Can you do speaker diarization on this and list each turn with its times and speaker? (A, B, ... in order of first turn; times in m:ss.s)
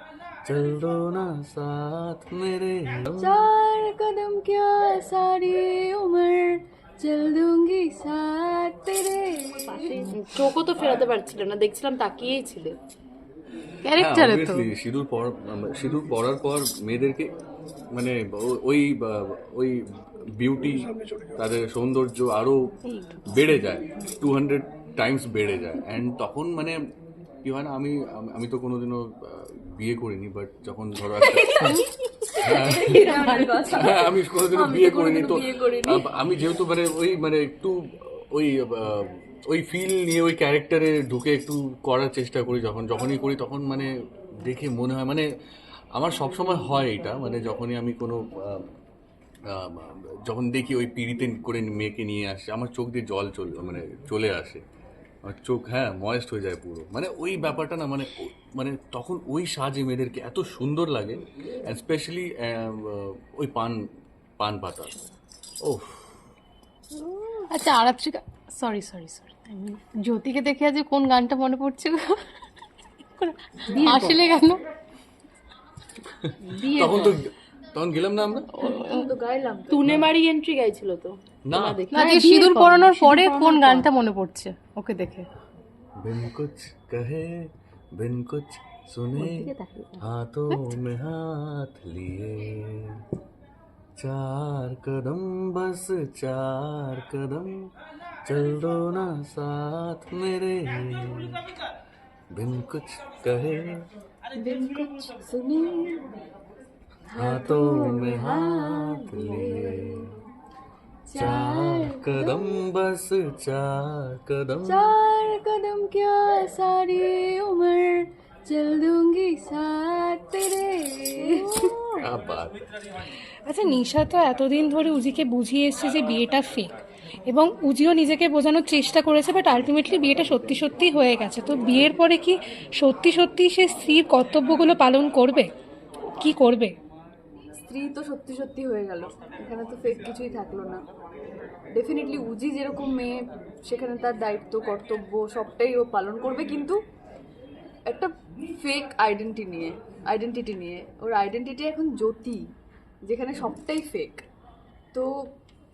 0:00.4-0:03.4 A
0:03.2-0:10.1 B
0:09.7-0:12.7 C
0:13.8-0:14.6 D
0:14.0-0:17.3 A
0:17.9-0:19.8 A
0:20.4-0:22.6 A
0:22.9-0:23.2 D
0:23.3-0:26.8 A
0:27.4-0:31.8 A
0:31.3-0:36.0 B
0:32.4-0:45.3 A
0:33.1-0:33.5 D
0:45.9-0:48.7 A
0:49.5-0:54.6 A
0:55.2-1:03.8 A
1:04.4-1:04.9 A
1:05.6-1:06.2 A
1:07.0-1:07.3 B
1:07.5-1:12.2 D
1:13.2-1:14.6 D
1:13.7-1:14.2 C
1:16.0-1:18.5 A
1:16.4-1:17.1 C
1:18.6-1:20.0 B
1:19.7-1:23.9 C
1:21.4-1:21.8 A
1:21.9-1:25.3 D
1:26.0-1:33.0 A
1:29.2-1:30.0 C
1:30.5-1:30.8 D
1:34.0-1:37.5 A
1:38.2-1:41.4 A
1:42.3-1:43.8 A
1:44.4-1:46.0 B
1:47.1-1:50.2 B
1:47.2-1:50.1 A
1:51.0-1:52.6 B
1:51.1-1:54.9 A
1:54.6-2:02.0 B
2:02.0-2:02.6 A
2:03.5-2:15.5 E
2:16.2-2:16.7 E
2:17.6-2:20.8 B
2:21.7-2:26.8 B
2:27.9-2:32.4 B
2:33.0-2:34.2 B